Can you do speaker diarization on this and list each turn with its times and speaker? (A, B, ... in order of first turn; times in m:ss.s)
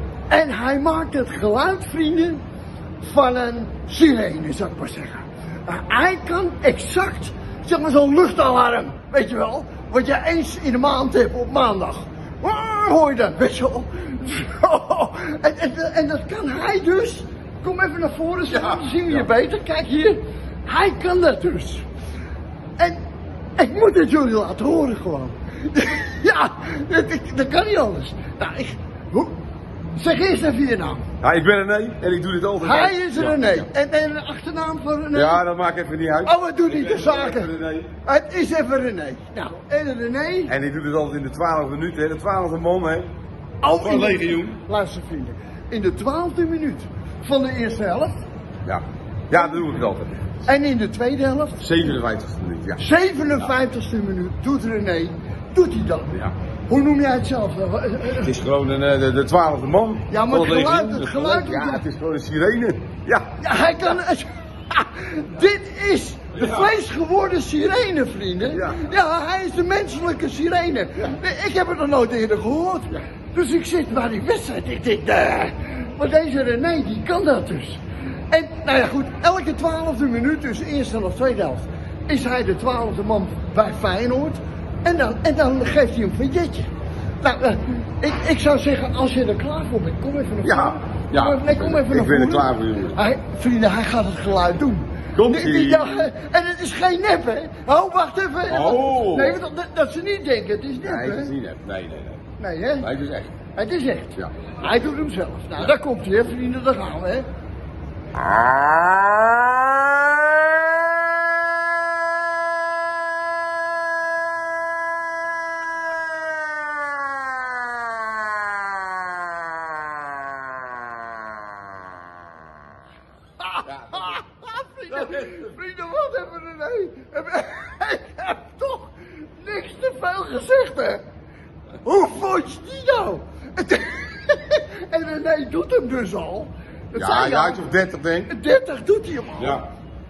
0:00.3-0:02.4 A
0:03.0-0:21.8 A
0:18.5-0:19.2 B
0:23.6-0:29.4 A
0:30.0-0:31.1 A
0:31.2-0:33.7 B
0:32.6-0:35.4 A
0:35.1-0:37.9 B
0:36.2-0:37.5 A
0:38.0-0:40.5 A
0:40.5-0:43.1 B
0:43.6-0:48.2 A
0:43.8-0:44.6 B
0:48.7-0:50.2 B
0:50.4-0:51.7 A
0:51.6-0:52.8 B
0:52.8-0:58.3 A
0:58.2-1:03.3 B
1:00.1-1:01.8 A
1:03.4-1:26.7 A
1:06.3-1:06.7 B
1:08.5-1:08.8 B
1:27.2-1:41.3 A
1:30.4-1:33.0 B
1:35.2-1:36.1 B
1:38.5-1:39.4 B
1:40.8-1:42.2 B
1:42.4-1:42.9 A
1:42.8-1:43.3 B
1:43.6-1:47.3 A
2:03.4-2:11.0 A
2:03.6-2:04.2 B
2:04.9-2:05.5 B
2:11.8-2:17.7 A
2:16.9-2:18.3 B
2:18.3-2:19.6 A
2:19.4-2:19.7 B